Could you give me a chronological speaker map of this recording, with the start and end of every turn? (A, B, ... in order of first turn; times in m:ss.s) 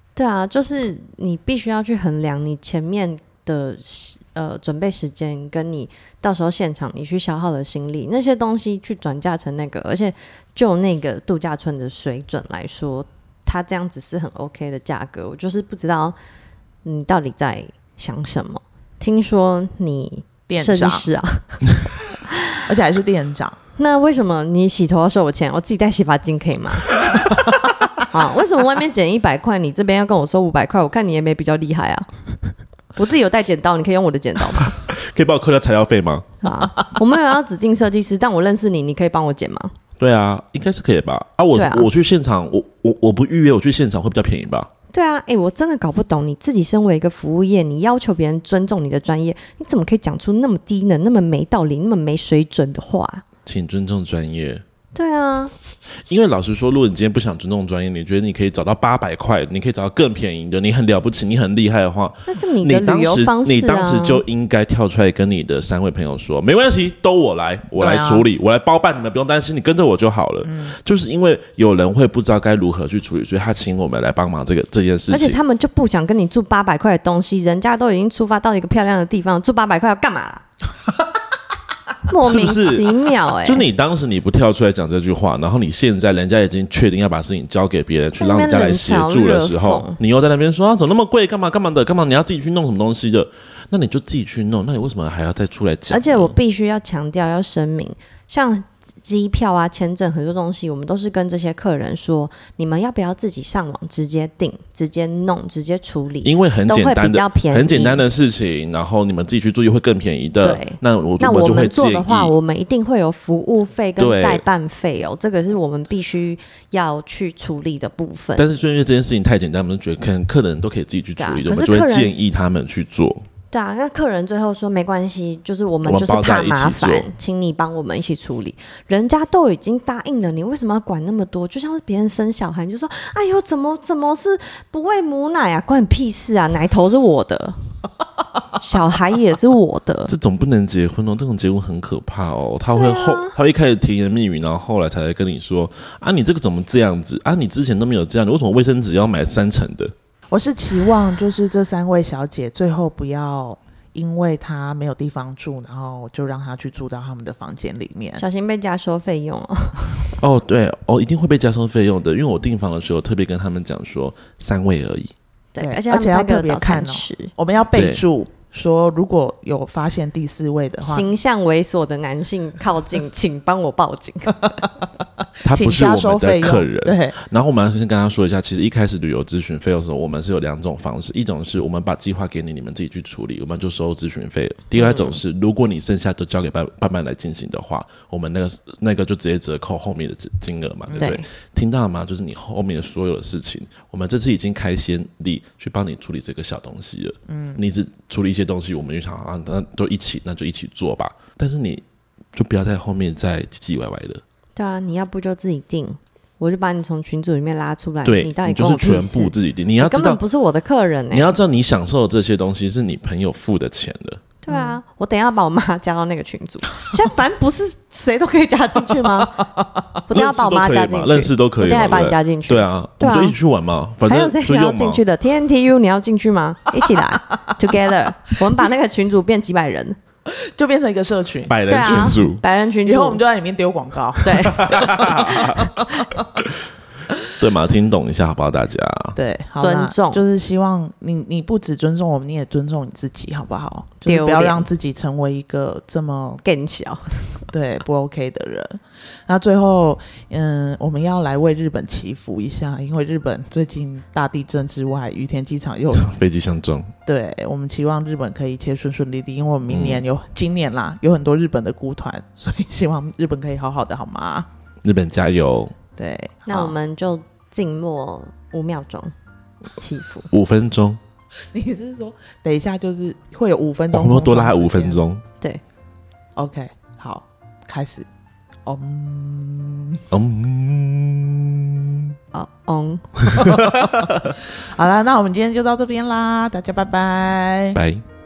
0:00.2-0:16.2 A
0:16.8-0:21.6 A
0:20.5-0:21.0 B
0:22.3-0:22.6 A
0:22.6-0:23.6 B
0:23.8-0:27.0 A
0:28.0-0:32.1 A
0:33.0-0:34.7 A
0:34.6-0:36.3 C
0:36.4-0:39.7 A
0:40.0-0:44.7 C
0:41.5-0:41.9 A
0:44.9-0:53.2 A
0:53.4-0:54.6 C
0:54.9-0:55.5 A
0:56.1-1:15.4 C
1:02.3-1:04.2 A
1:07.8-1:08.2 B
1:10.4-1:10.8 B
1:15.1-1:20.4 A
1:22.1-1:23.7 A
1:22.2-1:36.4 C
1:28.2-1:30.0 A
1:35.9-1:48.0 A
1:46.2-1:52.3 C
1:50.4-1:58.4 A
1:54.0-1:54.4 C
1:58.4-2:03.2 C
2:01.2-2:02.1 A
2:03.5-2:17.6 A
2:05.8-2:07.1 C
2:18.6-2:20.1 A
2:20.1-2:29.9 C
2:22.7-2:23.4 A
2:30.3-2:38.2 B
2:38.2-2:39.9 A
2:40.2-2:45.1 C
2:45.5-2:47.3 A
2:45.6-2:51.1 B
2:47.7-2:48.0 C
2:50.8-2:54.6 A
2:55.4-3:24.2 C
2:55.5-2:57.2 B
3:04.8-3:05.2 A
3:10.9-3:11.2 B
3:11.0-3:11.2 A
3:17.3-3:17.6 B
3:24.6-3:31.3 A
3:28.0-3:30.2 C
3:31.1-3:34.2 C
3:34.4-3:39.4 A
3:34.5-3:34.8 B
3:39.3-3:39.6 B
3:40.1-3:43.4 A
3:40.1-3:45.0 C
3:44.1-3:50.0 A
3:50.3-3:52.2 B
3:51.5-3:52.4 C
3:51.7-3:53.2 A
3:52.8-3:56.2 B
3:54.2-3:55.7 A
3:54.4-3:55.8 C
3:57.4-3:59.2 C
3:59.2-4:06.4 B
3:59.6-4:00.2 A
4:04.0-4:04.7 A
4:06.4-4:07.1 A
4:07.5-4:16.1 B
4:15.9-4:16.9 C
4:17.0-4:24.5 B
4:19.7-4:20.0 C
4:24.8-4:25.8 C
4:26.0-4:26.7 B
4:26.5-4:29.1 A
4:29.7-4:30.3 A
4:30.3-4:31.0 C
4:31.5-4:35.0 B
4:33.9-4:35.2 C
4:36.4-4:38.1 B
4:38.6-4:40.0 B
4:40.1-4:42.1 C
4:42.3-4:43.1 A
4:43.2-4:44.3 C
4:43.4-4:47.8 B
4:47.7-4:48.0 C